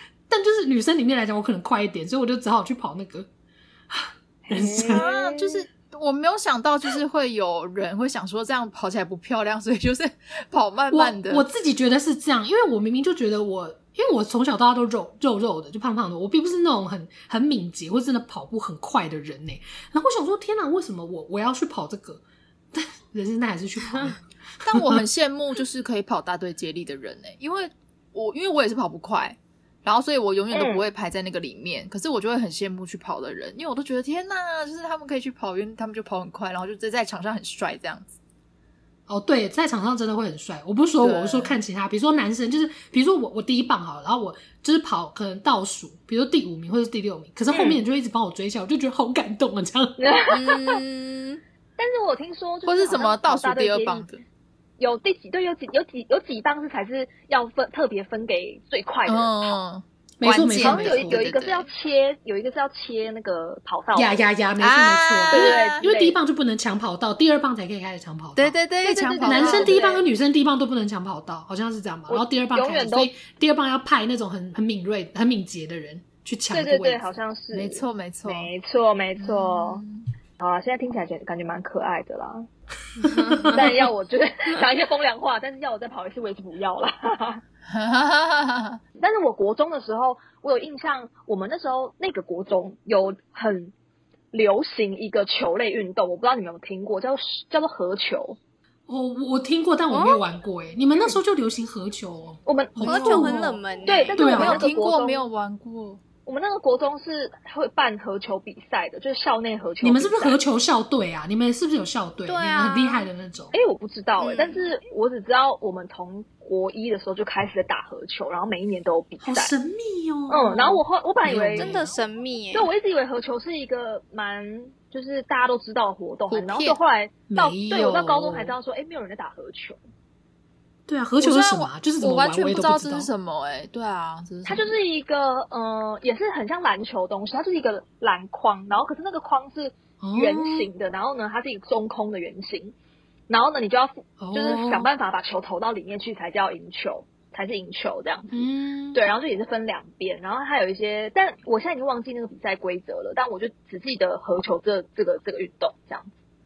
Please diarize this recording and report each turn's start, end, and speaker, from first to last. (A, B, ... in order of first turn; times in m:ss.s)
0:00.3-0:03.3 A
0:03.9-0:05.0 A
0:04.4-0:05.6 B
0:04.8-0:11.4 C
0:10.9-0:25.0 A
0:24.6-0:38.1 C
0:30.5-0:30.8 B
0:39.1-0:50.0 A
0:41.0-0:41.6 C
0:47.5-0:47.8 B
0:50.0-0:50.7 B
0:50.3-0:51.4 C
0:51.8-0:54.1 B
0:52.6-0:54.2 C
0:54.8-0:59.6 B
0:59.1-1:01.7 C
1:00.2-1:01.2 A
1:00.6-1:04.2 B
1:03.9-1:08.6 A
1:04.6-1:05.8 C
1:05.3-1:06.2 B
1:08.3-1:09.8 C
1:08.8-1:10.0 B
1:09.2-1:17.8 A
1:12.1-1:13.1 B
1:16.5-1:19.8 B
1:17.6-1:18.5 C
1:19.2-1:20.1 C
1:20.4-1:22.5 B
1:23.0-1:23.7 A
1:23.1-1:23.6 D
1:23.5-1:27.4 B
1:27.7-1:28.8 C
1:29.0-1:33.7 B
1:34.3-1:38.4 B
1:38.9-1:43.6 A
1:39.9-1:40.2 D
1:42.4-1:43.2 B
1:42.8-1:44.6 D
1:42.8-1:43.4 C
1:43.8-1:45.2 B
1:44.1-1:46.0 C
1:44.2-1:44.6 A
1:46.2-1:50.4 B
1:49.8-1:53.5 A
1:52.2-1:53.1 D
1:53.5-1:59.5 B
1:54.2-1:54.7 D
1:59.2-2:01.9 A
2:00.3-2:01.7 B
2:01.6-2:02.7 D
2:02.5-2:09.8 B
2:06.3-2:06.8 C
2:07.3-2:08.5 A
2:10.9-2:13.1 A
2:11.2-2:14.7 C
2:14.4-2:22.7 B
2:20.0-2:20.7 A
2:23.3-2:36.1 B
2:24.2-2:24.9 A
2:28.3-2:29.0 A